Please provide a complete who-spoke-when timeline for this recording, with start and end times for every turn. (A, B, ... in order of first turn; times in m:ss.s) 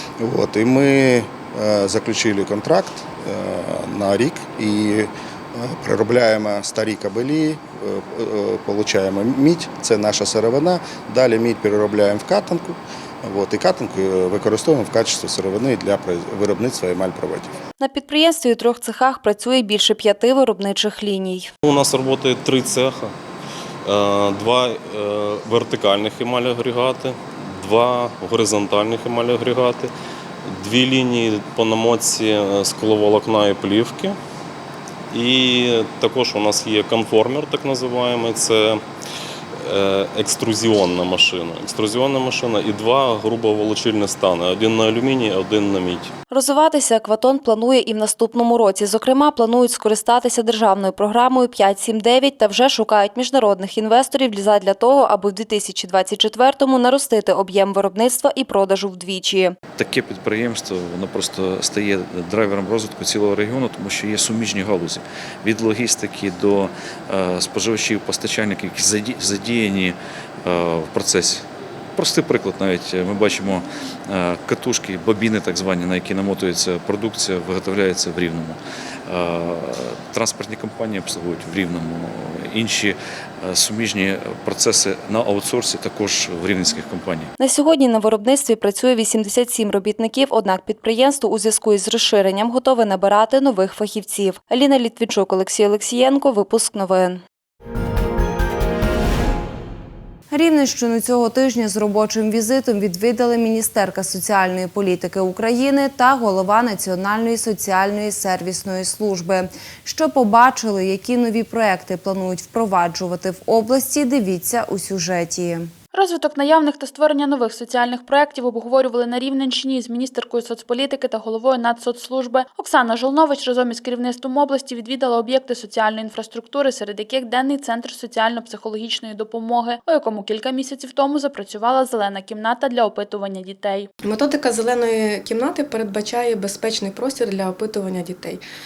0:00.2-0:17.6 A
0:17.8-0:21.5 B
0:21.6-0:23.1 C
0:23.8-0:29.9 C
0:30.5-0:34.2 C
0:35.1-0:38.8 C
0:39.6-0:46.1 C
0:46.3-0:59.6 B
0:59.8-1:27.3 D
1:27.4-1:37.2 B
1:40.3-1:55.7 E
1:55.9-2:13.9 F
2:14.0-2:18.4 G